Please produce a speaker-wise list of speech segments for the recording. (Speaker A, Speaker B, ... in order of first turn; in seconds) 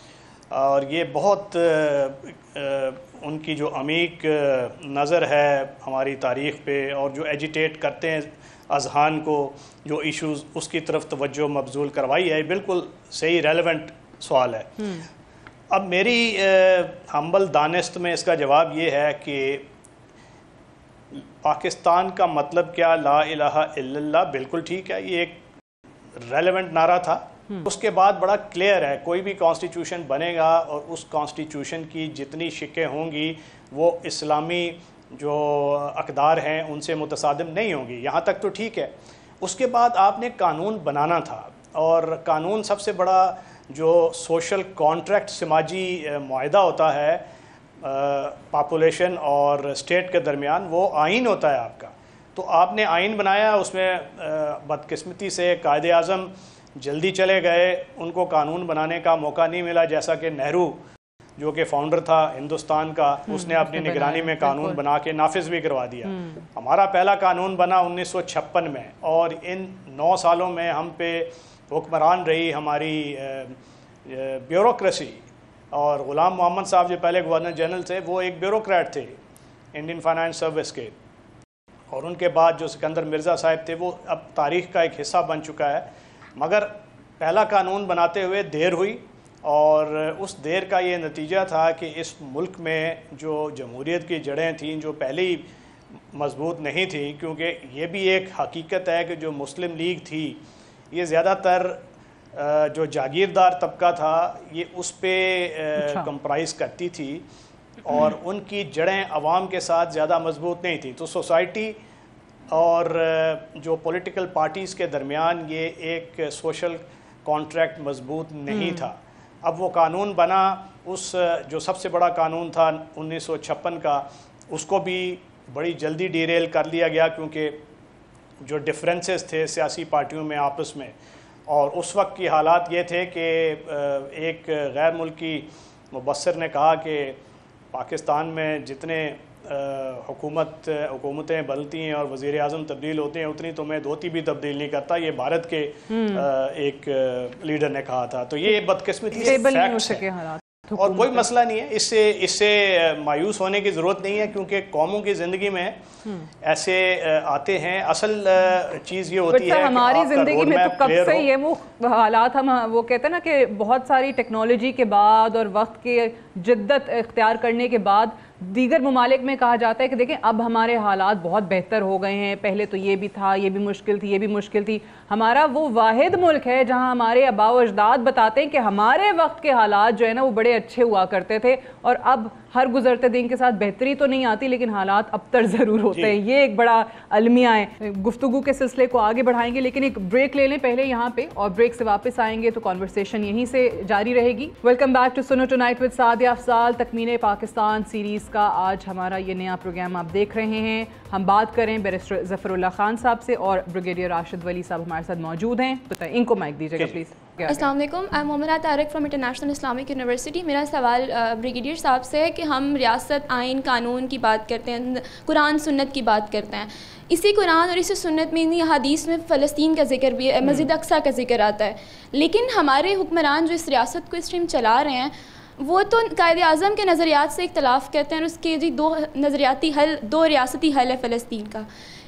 Speaker A: 0.5-14.9, 15.7-19.7, 21.1-25.4, 26.2-47.2, 47.8-60.8, 61.4-79.2, 79.8-80.9, 81.9-95.5, 96.1-100.4, 100.9-101.8, 102.3-107.2, 107.8-111.8, 112.5-127.6, 128.4-130.9, 131.5-137.2, 137.7-150.1, 150.8-155.8, 156.4-161.3
Speaker B: 14.8-15.1, 63.3-64.8, 66.1-66.4, 105.8-106.1, 118.5-118.9, 145.9-146.2, 149.1-151.3, 159.3-207.7
Speaker C: 207.5-231.7